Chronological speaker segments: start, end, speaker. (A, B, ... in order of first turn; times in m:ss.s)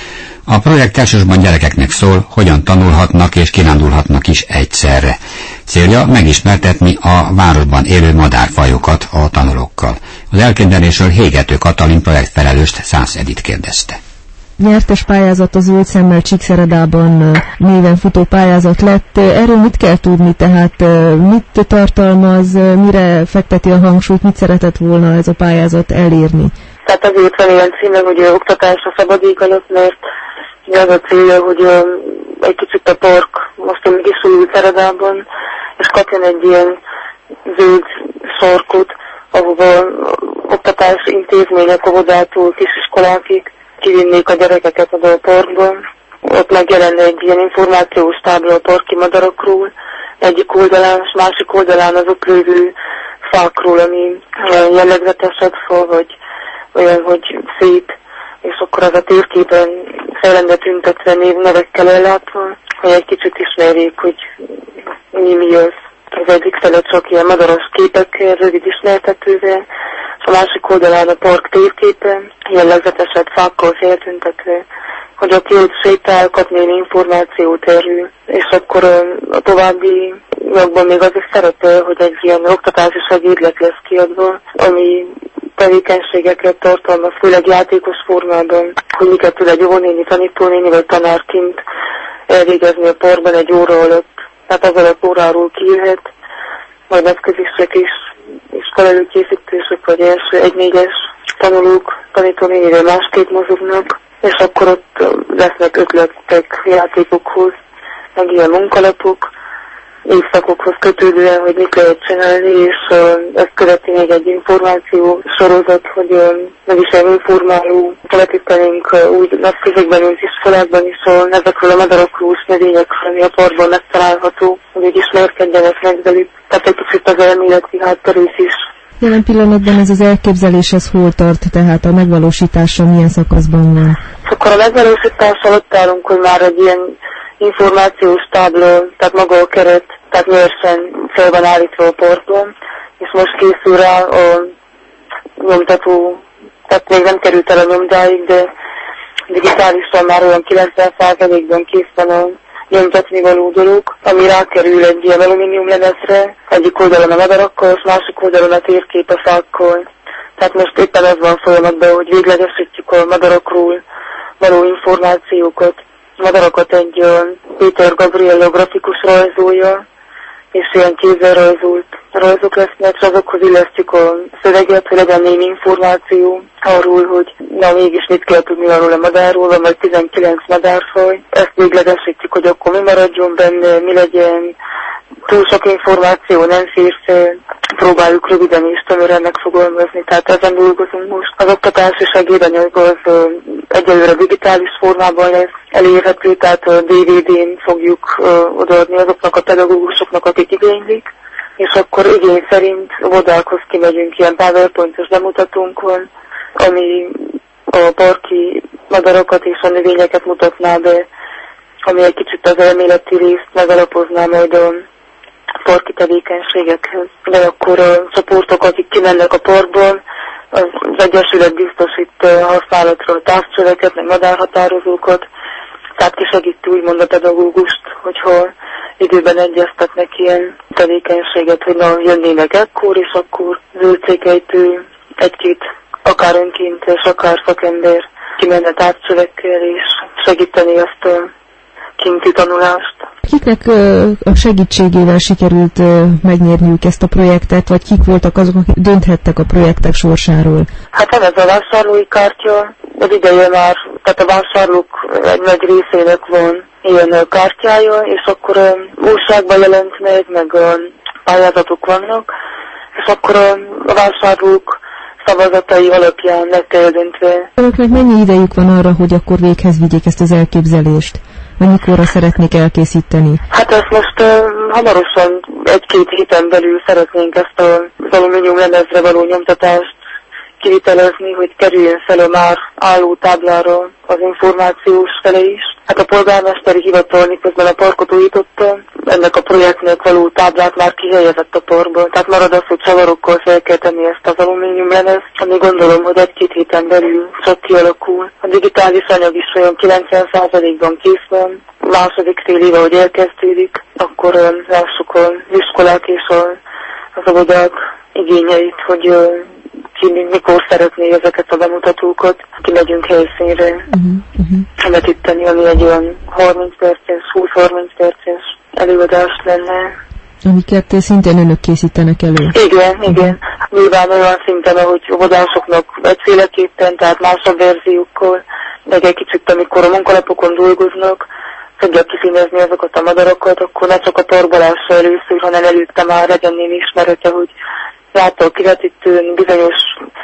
0:00.5-0:14.0 A
0:14.6-0:26.5 B
0:26.8-0:30.0 C
0:30.7-0:35.2 C
0:35.8-0:36.8 C
0:37.5-0:52.7 C
0:53.2-0:56.2 C
0:56.7-1:04.2 C
1:05.1-1:09.6 C
1:10.2-1:14.6 C
1:15.2-1:31.6 C
1:32.3-1:36.1 C
1:36.9-1:37.9 C
1:38.5-1:47.5 C
1:48.2-1:49.3 C
1:50.1-2:08.6 C
2:09.0-2:14.0 B
2:14.2-2:24.5 C
2:25.4-2:28.5 C
2:29.3-2:39.8 C
2:40.4-2:43.8 C
2:44.4-2:49.8 C
2:50.5-3:04.6 C
3:05.3-3:31.1 C
3:31.9-3:34.8 C
3:35.6-3:40.0 C
3:40.5-3:45.3 C
3:46.0-4:01.3 C
4:02.0-4:03.0 C
4:03.3-4:10.7 B
4:10.9-4:22.3 C
4:23.0-4:27.5 C
4:27.6-4:33.4 B
4:33.5-4:39.9 C
4:40.6-5:06.6 C
5:07.2-5:13.9 C
5:13.9-5:14.6 B
5:14.8-5:19.9 C
5:20.4-5:22.5 B
5:22.5-5:31.3 C
5:31.8-5:37.5 C
5:38.1-5:40.0 C